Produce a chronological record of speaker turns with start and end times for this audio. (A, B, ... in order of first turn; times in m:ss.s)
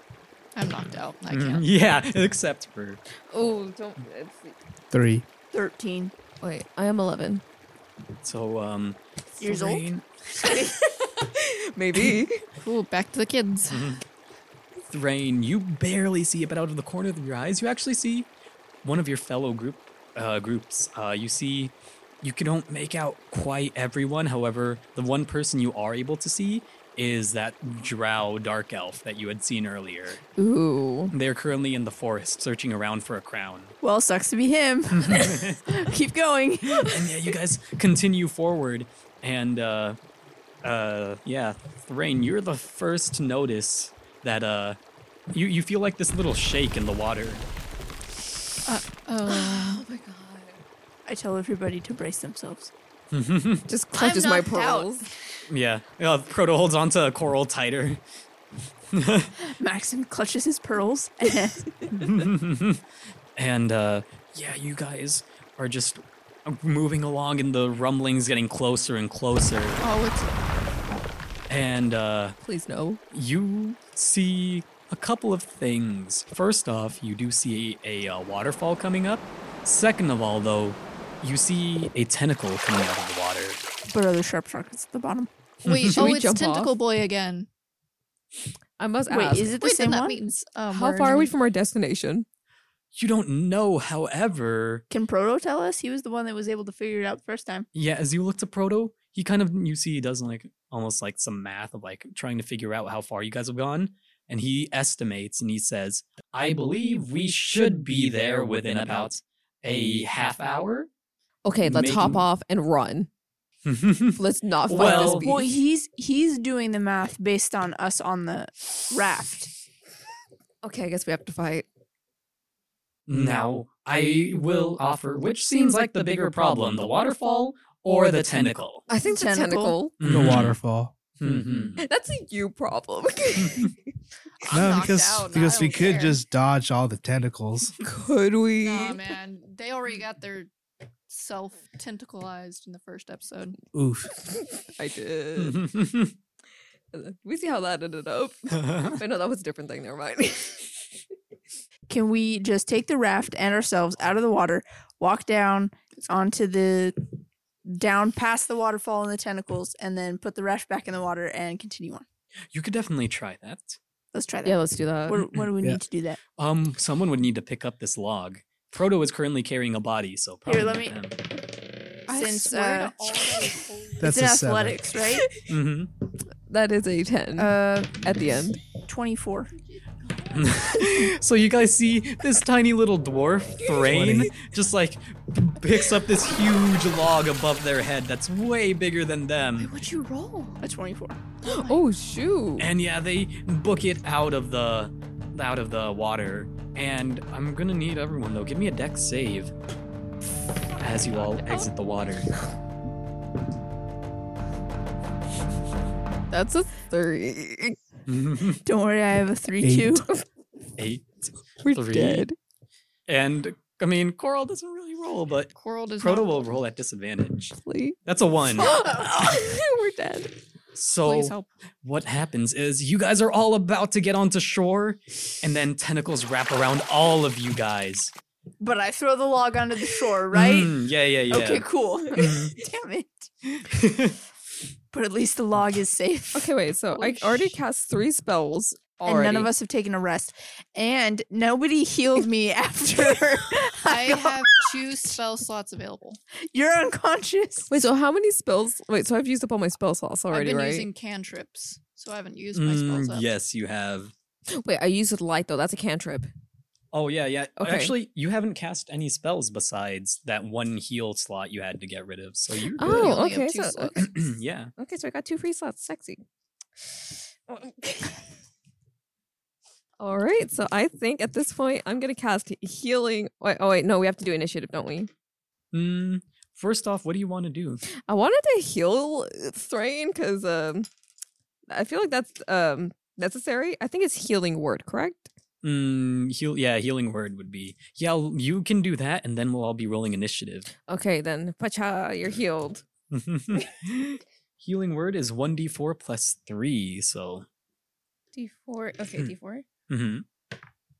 0:00.5-0:01.6 A
0:01.3-0:03.0 B
0:03.3-0:04.6 C
0:04.9-0:05.2 D
0:05.5-0:06.1 E
0:06.4-0:07.4 C
0:08.2-0:10.0 B
0:09.4-0:09.8 E
0:10.4-0:12.4 C
0:12.6-0:13.9 A
0:13.7-0:14.0 B
0:14.9-0:18.3 B
0:18.8-0:30.2 B
0:30.4-0:31.1 C
0:31.1-0:33.7 B
0:33.8-0:37.3 E
0:34.9-0:35.6 B
0:36.7-0:40.0 B
0:40.6-0:44.8 B
0:45.3-0:47.4 B
0:48.6-0:49.8 A
0:49.2-0:50.6 C
0:51.0-0:52.7 E
0:53.1-0:53.6 B
0:53.7-0:55.0 C
0:53.9-0:55.0 E
0:55.5-0:58.0 B
0:58.9-0:59.3 B
0:59.4-1:02.0 E
1:02.0-1:02.8 B
1:03.4-1:09.8 B
1:09.8-1:10.3 A
1:11.5-1:12.4 B
1:12.4-1:13.0 C
1:13.1-1:23.6 B
1:23.9-1:25.3 E
1:25.6-1:26.0 B
1:25.6-1:27.5 A
1:25.8-1:26.7 C
1:28.8-1:29.6 C
1:29.1-1:30.2 E
1:29.6-1:31.3 A
1:30.7-1:32.2 C
1:32.9-1:34.8 B
1:34.9-1:37.7 E
1:37.7-1:50.9 B
1:51.4-1:53.1 C
1:51.6-1:52.2 B
1:53.6-1:55.2 B
1:54.2-1:55.4 C
1:54.8-1:59.5 E
2:00.6-2:01.6 C
2:03.1-2:08.8 B
2:08.9-2:09.9 C
2:09.0-2:09.8 E
2:10.0-2:10.6 B
2:10.0-2:10.9 D
2:11.2-2:11.8 B
2:11.8-2:13.7 C
2:13.4-2:13.7 B
2:14.5-2:16.2 A
2:14.5-2:17.8 D
2:14.6-2:14.8 E
2:15.4-2:15.8 E
2:17.8-2:19.0 C
2:18.6-2:20.5 A
2:21.1-2:23.6 A
2:23.7-2:24.1 D
2:24.3-2:25.6 C
2:25.4-2:26.1 B
2:26.9-2:30.7 C
2:28.5-2:29.0 B
2:31.9-2:37.0 E
2:37.6-2:42.0 E
2:42.5-2:43.8 B
2:44.1-2:46.2 E
2:44.4-2:45.2 C
2:46.4-2:51.2 B
2:50.4-2:51.0 E
2:52.1-2:53.7 A
2:52.1-2:55.3 E
2:54.0-2:54.9 D
2:55.4-2:55.9 B
2:56.5-2:58.6 C
2:57.4-2:58.1 E
2:58.9-2:59.5 E
3:00.3-3:09.7 B
3:03.9-3:04.3 D
3:09.6-3:10.6 A
3:10.6-3:11.2 E
3:11.4-3:12.7 C
3:12.6-3:19.5 B
3:20.8-3:22.3 B
3:26.3-3:27.8 C
3:28.1-3:28.6 B
3:28.6-3:30.1 E
3:29.6-3:30.0 D
3:30.8-3:32.2 B
3:31.6-3:32.4 C
3:33.1-3:38.7 B
3:35.5-3:36.4 A
3:37.6-3:38.0 C
3:38.6-3:40.3 C
3:38.7-3:39.1 E
3:40.7-3:48.1 B
3:41.0-3:41.4 A
3:48.6-3:50.8 E
3:50.3-3:52.5 B
3:51.3-3:53.3 E
3:53.5-3:54.2 B
3:54.9-3:57.5 E
3:56.3-3:59.5 C
3:59.0-4:04.6 E
4:03.8-4:06.2 A
4:06.5-4:07.8 E
4:07.7-4:10.9 C
4:10.3-4:13.3 A
4:12.5-4:14.1 B
4:14.5-4:16.3 C
4:16.9-4:23.1 B
4:17.6-4:17.9 C
4:22.8-4:24.1 C
4:22.8-4:24.1 A
4:24.0-4:24.7 B
4:24.8-4:26.2 C
4:27.5-4:28.2 C
4:30.0-4:35.1 C
4:35.7-4:37.8 B
4:37.9-4:40.9 C
4:41.7-4:45.3 C
4:45.6-4:50.7 B
4:50.8-4:52.8 C
4:53.1-4:57.4 B
4:58.3-4:59.6 C
4:59.9-5:00.2 B